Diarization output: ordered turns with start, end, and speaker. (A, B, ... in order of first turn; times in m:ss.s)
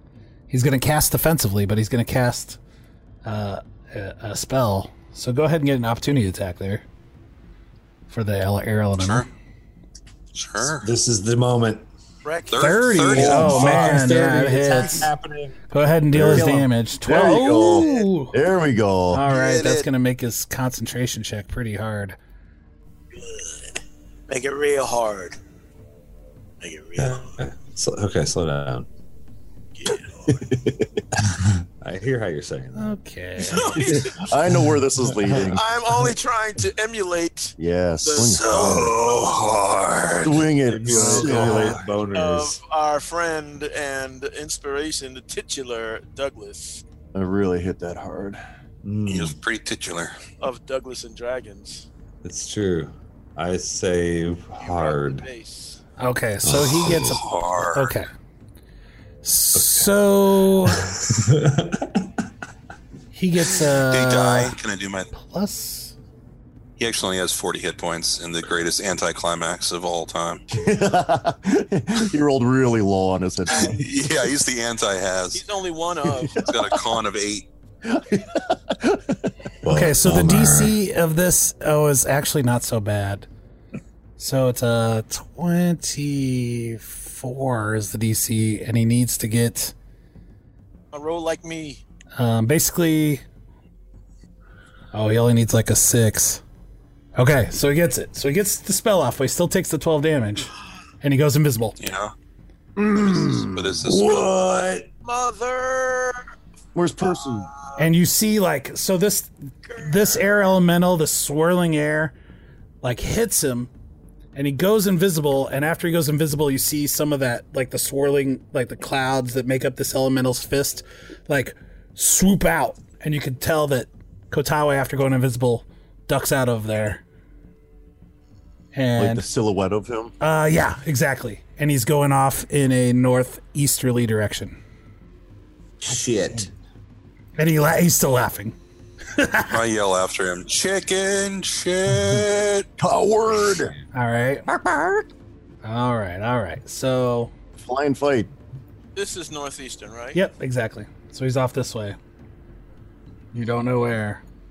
0:00.5-0:02.6 A
0:03.2-0:06.8 A
0:08.1-0:09.3 A
0:09.0-0:09.3 B
0:10.4-0:10.9 B
0:10.8-0:11.8 C
0:12.2-0:13.9 D
0:12.5-0:13.8 B
0:12.6-0:15.1 A
0:13.1-0:15.6 C
0:15.7-0:18.3 A
0:16.1-0:19.2 E
0:16.2-0:16.6 C
0:17.4-0:18.1 D
0:19.1-0:22.2 A
0:19.3-0:19.9 D
0:23.1-0:23.8 D
0:24.3-0:25.4 D
0:26.6-0:27.4 D
0:27.0-0:28.9 C
0:29.7-0:30.5 D
0:30.5-0:30.8 E
0:31.2-0:32.9 C
0:32.8-0:33.8 A
0:33.5-0:34.3 D
0:33.9-0:35.6 E
0:35.1-0:35.5 C
0:35.4-0:39.4 D
0:37.6-0:38.9 E
0:38.4-0:42.6 C
0:40.2-0:41.8 E
0:40.9-0:41.8 A
0:42.1-0:46.8 D
0:47.1-0:48.4 E
0:48.8-0:49.4 C
0:49.1-0:50.1 B
0:50.4-0:51.9 D
0:52.2-0:55.3 C
0:54.6-0:55.8 D
0:56.0-0:58.1 A
0:56.4-0:57.2 C
0:56.9-0:57.9 B
0:59.2-1:00.9 A
0:59.5-0:59.9 C
1:00.7-1:02.1 C
1:03.1-1:04.6 A
1:03.9-1:05.1 B
1:05.1-1:05.9 A
1:06.8-1:10.4 B
1:10.5-1:13.8 E
1:13.5-1:15.4 B
1:15.3-1:16.5 D
1:16.4-1:17.5 B
1:17.8-1:19.9 E
1:19.6-1:20.8 C
1:19.7-1:23.3 A
1:24.2-1:29.7 A
1:30.9-1:31.8 D
1:32.2-1:33.2 A
1:34.9-1:36.4 A
1:37.2-1:40.5 A
1:41.0-1:41.8 A
1:41.8-1:42.1 B
1:42.8-1:43.8 E
1:43.0-1:44.3 B
1:43.8-1:44.9 C
1:45.0-1:46.2 D
1:46.7-1:47.5 E
1:47.0-1:47.8 D
1:47.8-1:52.1 A
1:49.7-1:50.4 D
1:52.8-1:53.7 A
1:54.4-2:07.0 A
2:08.7-2:09.2 A
2:09.0-2:10.1 E
2:10.2-2:14.6 A
2:15.8-2:16.5 C
2:17.4-2:18.6 A
2:19.2-2:19.5 A
2:19.5-2:22.7 B
2:22.8-2:23.7 E
2:23.9-2:24.4 A
2:24.5-2:25.0 E
2:25.6-2:27.3 A
2:27.6-2:28.3 E
2:28.9-2:30.2 D
2:30.1-2:32.0 A
2:33.3-2:34.2 A